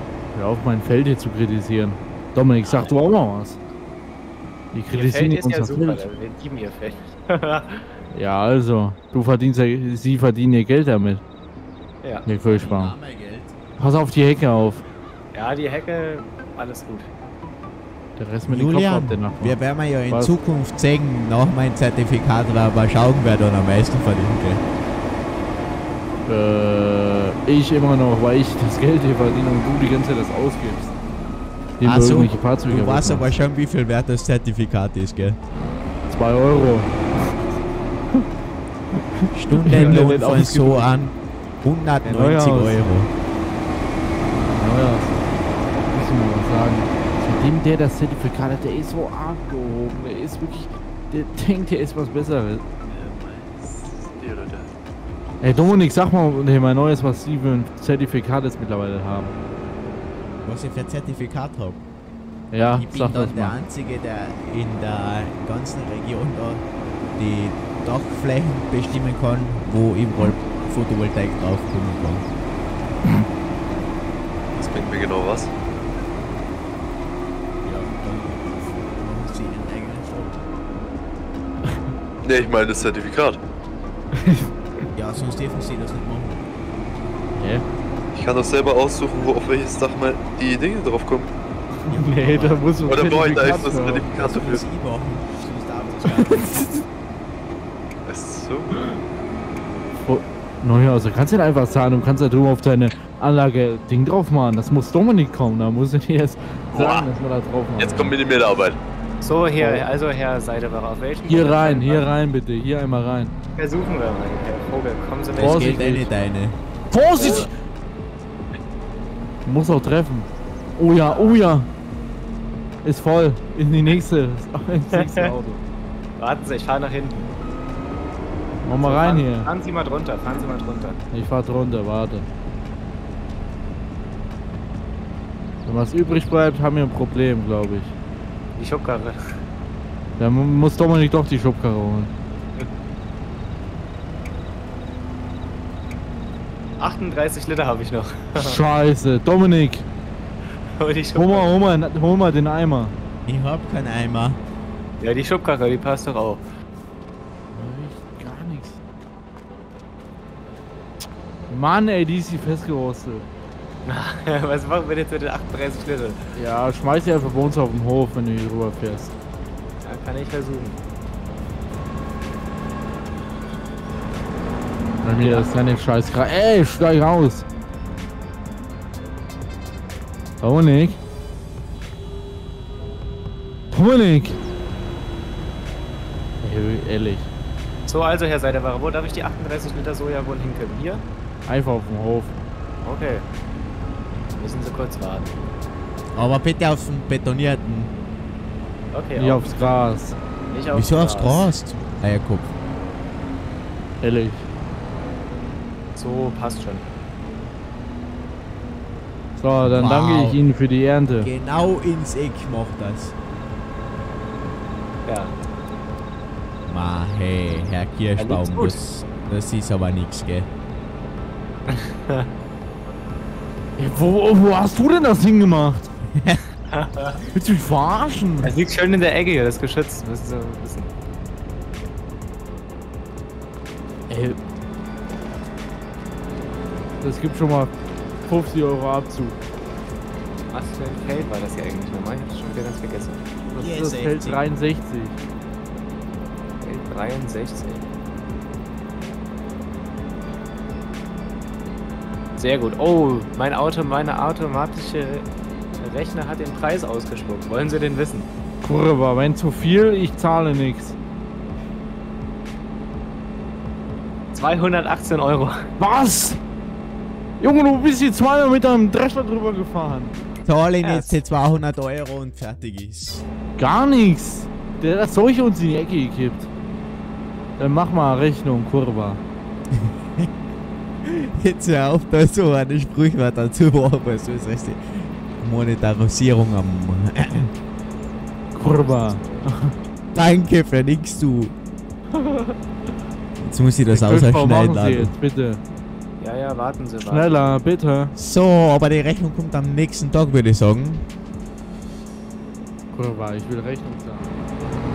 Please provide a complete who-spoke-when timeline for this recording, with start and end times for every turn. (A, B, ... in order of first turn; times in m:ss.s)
0:00.3-0:03.6 A
0:02.6-0:02.9 B
0:04.7-0:06.0 A
0:04.9-0:07.8 B
0:08.1-0:11.2 A
0:12.2-0:13.0 A
0:12.5-0:13.5 C
0:13.8-0:14.8 A
0:15.3-0:17.1 B
0:18.2-0:20.4 A
0:18.4-0:24.6 C
0:26.3-0:30.9 A
0:31.8-0:33.3 A
0:31.8-0:35.4 C
0:36.0-0:37.3 A
0:39.3-0:43.1 C
0:39.5-0:40.9 A
0:42.0-0:42.8 A
0:44.5-0:45.3 A
0:45.9-0:52.6 A
0:52.9-0:54.8 D
0:55.4-0:59.4 A
1:00.4-1:01.8 C
1:02.5-1:03.6 A
1:02.7-1:06.6 C
1:07.2-1:12.3 C
1:14.5-1:15.5 D
1:17.6-1:20.4 C
1:22.2-1:23.4 D
1:24.9-1:26.4 C
1:27.3-1:27.6 A
1:28.1-1:31.3 D
1:31.8-1:34.0 A
1:31.9-1:32.8 C
1:32.8-1:34.6 D
1:33.9-1:36.6 C
1:36.2-1:36.8 A
1:38.0-1:38.8 D
1:40.0-1:48.2 A
1:46.7-1:47.1 D
1:47.8-1:48.8 D
1:49.2-1:52.0 B
1:49.6-1:49.8 A
1:51.3-1:53.3 A
1:53.6-1:56.0 B
1:55.4-1:56.6 C
1:55.4-1:56.1 A
1:56.9-1:57.5 A
1:57.1-1:57.5 B
1:59.4-2:01.7 A
2:01.0-2:01.4 B
2:02.8-2:05.6 A
2:04.9-2:05.3 B
2:06.2-2:07.3 B
2:08.6-2:09.5 A
2:08.8-2:11.0 B
2:11.1-2:12.3 A
2:15.6-2:17.9 A
2:18.6-2:19.2 B
2:20.2-2:22.1 A
2:26.8-2:28.6 B
2:28.4-2:29.8 A
2:30.8-2:31.5 B
2:31.1-2:32.9 A
2:33.2-2:34.4 C
2:35.0-2:36.4 B
2:37.5-2:38.8 A
2:41.5-2:43.3 A
2:43.8-2:46.2 B
2:46.3-2:49.1 A
2:49.8-2:50.8 B
2:55.0-2:57.4 A
2:55.2-2:55.5 B
3:00.4-3:01.0 A
3:03.7-3:04.4 A
3:06.4-3:07.3 A
3:07.9-3:11.0 B
3:11.4-3:12.4 A
3:12.8-3:13.2 B
3:14.4-3:15.3 B
3:16.1-3:17.9 C
3:18.9-3:19.7 B
3:19.2-3:20.2 A
3:20.5-3:21.5 B
3:20.7-3:22.5 C
3:24.0-3:24.5 A
3:26.0-3:26.9 B
3:29.4-3:31.3 A
3:29.6-3:30.4 C
3:31.2-3:33.1 C
3:35.0-3:35.3 B
3:36.6-3:40.5 C
3:38.2-3:38.8 B
3:41.7-3:42.3 B
3:43.8-3:45.9 A
3:46.7-3:47.2 B
3:47.3-3:48.6 A
3:48.4-3:50.9 B
3:54.1-3:54.4 A
3:57.0-3:59.4 A
4:00.5-4:03.2 B
4:03.5-4:05.2 A
4:03.5-4:04.4 C
4:06.6-4:07.8 B
4:12.4-4:15.2 B
4:15.8-4:18.3 B
4:18.6-4:21.0 A
4:24.3-4:25.6 B
4:25.8-4:26.4 A
4:27.4-4:30.1 A
4:30.4-4:33.2 C
4:30.8-4:31.2 B
4:33.6-4:36.5 A
4:37.6-4:39.2 A
4:39.7-4:40.3 C
4:41.0-4:47.5 C
4:48.5-4:49.7 A
4:48.6-4:49.5 B
4:50.1-4:51.5 C
4:52.2-4:52.5 A
4:53.4-4:55.1 C
4:53.9-4:55.6 A
4:56.2-4:57.6 B
4:57.0-4:58.1 A
4:58.2-5:01.1 C
5:02.9-5:04.3 A